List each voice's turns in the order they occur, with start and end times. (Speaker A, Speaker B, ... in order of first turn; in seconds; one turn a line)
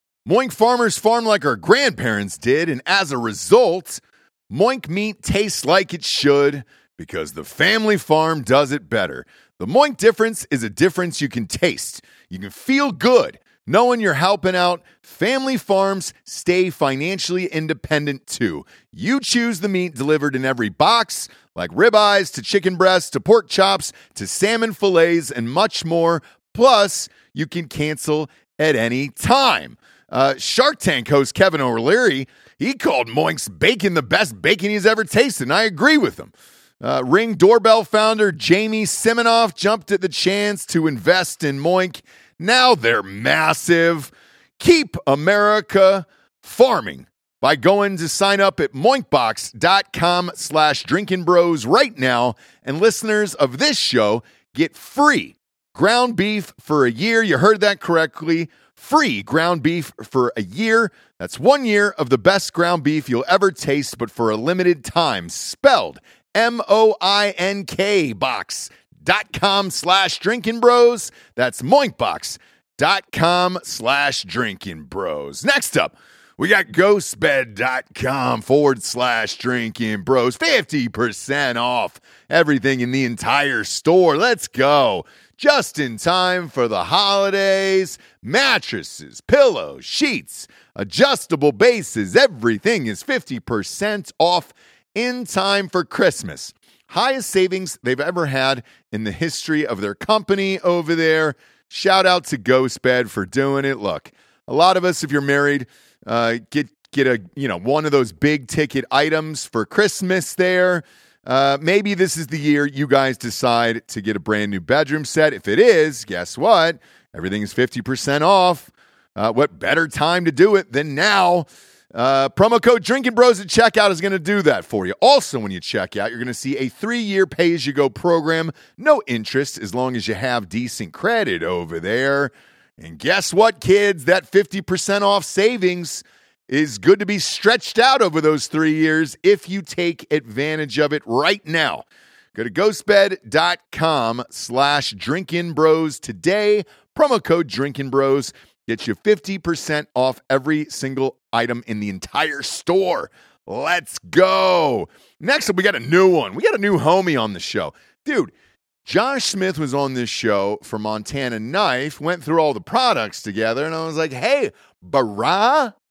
Speaker A: 0.3-158.3
Speaker A: 158.9-165.7